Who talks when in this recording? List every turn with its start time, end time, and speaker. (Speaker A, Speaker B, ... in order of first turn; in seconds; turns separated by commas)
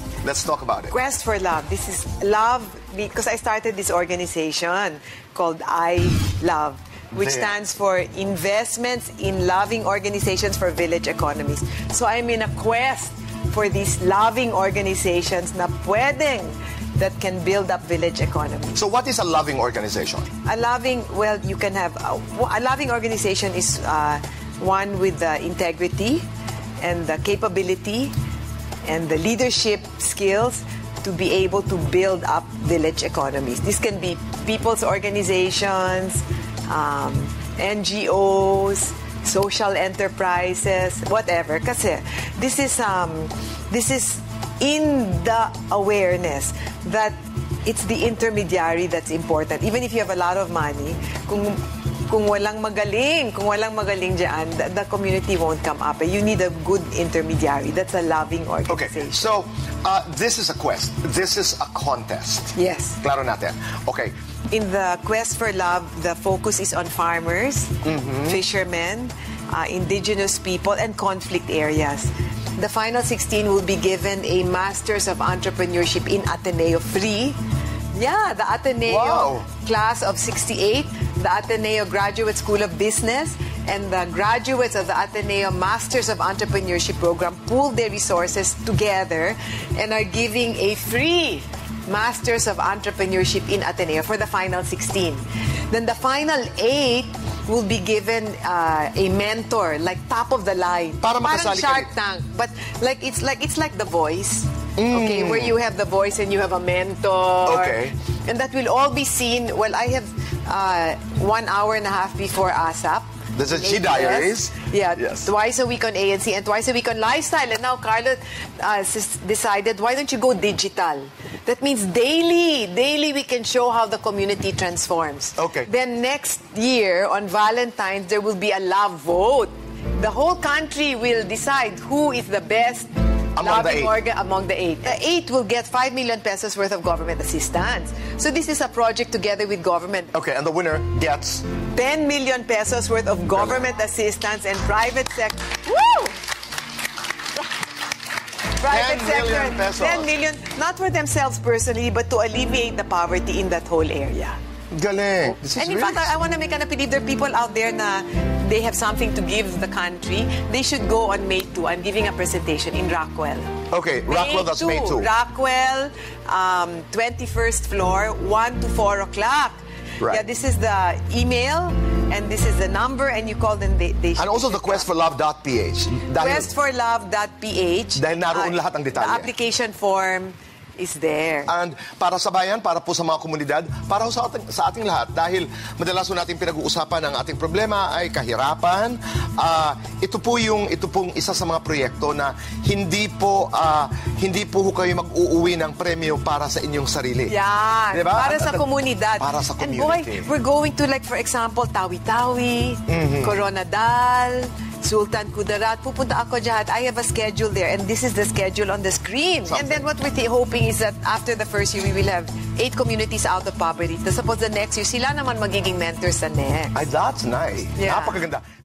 Speaker A: 0.2-0.9, Speaker B: 0.9-18.8, Speaker A: 7.2-7.5, Speaker A: 18.8-20.3, Speaker B: 20.4-26.2, Speaker B: 26.8-28.1, Speaker B: 28.9-59.3, Speaker A: 58.7-64.1, Speaker B: 62.5-63.0, Speaker B: 64.5-77.4, Speaker A: 67.8-68.4, Speaker B: 77.9-140.1, Speaker A: 78.9-79.5, Speaker A: 101.0-101.9, Speaker A: 104.8-105.6, Speaker A: 107.5-108.0, Speaker A: 113.3-115.3, Speaker A: 125.4-125.7, Speaker A: 133.4-133.9, Speaker A: 140.1-141.5, Speaker B: 141.7-146.2, Speaker B: 148.6-154.4, Speaker A: 148.6-150.1, Speaker A: 154.7-156.1, Speaker B: 155.5-174.9, Speaker A: 163.7-165.1, Speaker A: 174.2-176.5, Speaker B: 176.2-181.5, Speaker A: 177.9-179.3, Speaker A: 181.5-197.4, Speaker B: 197.3-216.8, Speaker A: 197.9-198.7, Speaker A: 199.2-200.3, Speaker A: 202.9-203.4, Speaker A: 209.5-209.8, Speaker A: 216.7-218.4, Speaker B: 217.8-218.2